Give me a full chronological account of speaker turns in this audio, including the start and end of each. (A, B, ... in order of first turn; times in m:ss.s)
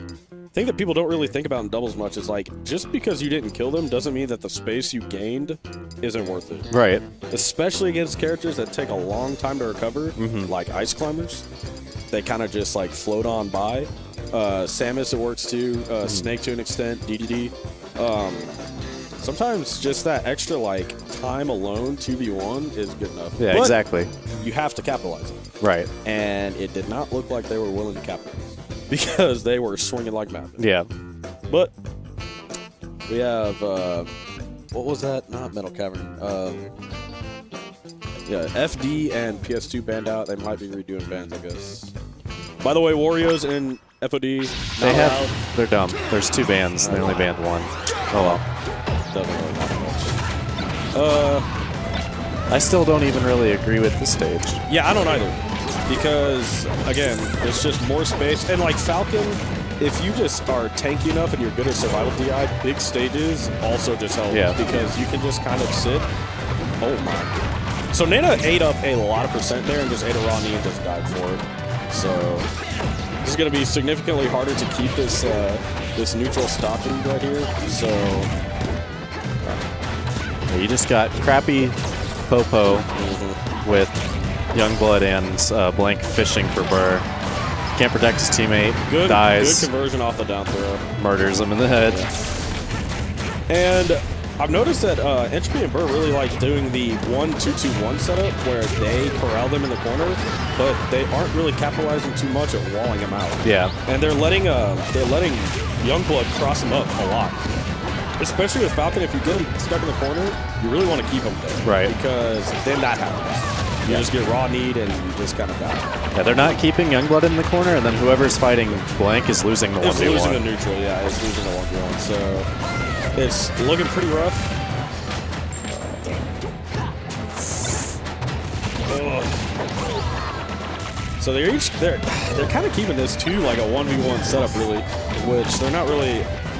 0:00.5-0:06.7 A
0:06.7-0:07.0 B
0:07.3-0:11.4 A
0:10.2-0:10.5 B
0:12.1-0:18.6 A
0:16.0-0:16.3 B
0:19.2-0:23.8 A
0:23.4-0:24.1 B
0:24.4-0:25.4 A
0:25.6-0:25.9 B
0:26.0-0:30.6 A
0:30.6-0:30.8 B
0:31.5-0:31.7 A
0:33.1-0:34.1 A
0:34.7-0:36.7 A
0:38.2-0:41.9 A
0:42.6-0:45.4 A
0:44.8-0:48.4 B
0:46.8-0:47.2 A
0:48.1-0:48.4 A
0:49.1-0:50.2 A
0:50.9-0:51.4 A
0:52.5-0:54.6 B
0:54.7-1:06.1 A
1:04.3-1:04.6 B
1:06.8-1:07.4 A
1:07.9-1:12.5 A
1:13.2-1:18.3 A
1:20.5-1:21.8 B
1:22.3-1:22.9 B
1:22.9-1:23.4 A
1:23.6-1:24.0 B
1:24.5-1:27.0 B
1:27.7-1:29.7 B
1:28.8-1:30.8 A
1:31.0-1:32.0 B
1:33.5-1:47.4 A
1:43.4-1:43.7 B
1:48.2-1:55.9 A
1:51.6-1:51.9 B
1:56.1-2:00.4 B
1:59.8-2:02.5 A
2:03.2-2:04.5 A
2:08.8-2:09.4 A
2:11.2-2:16.3 A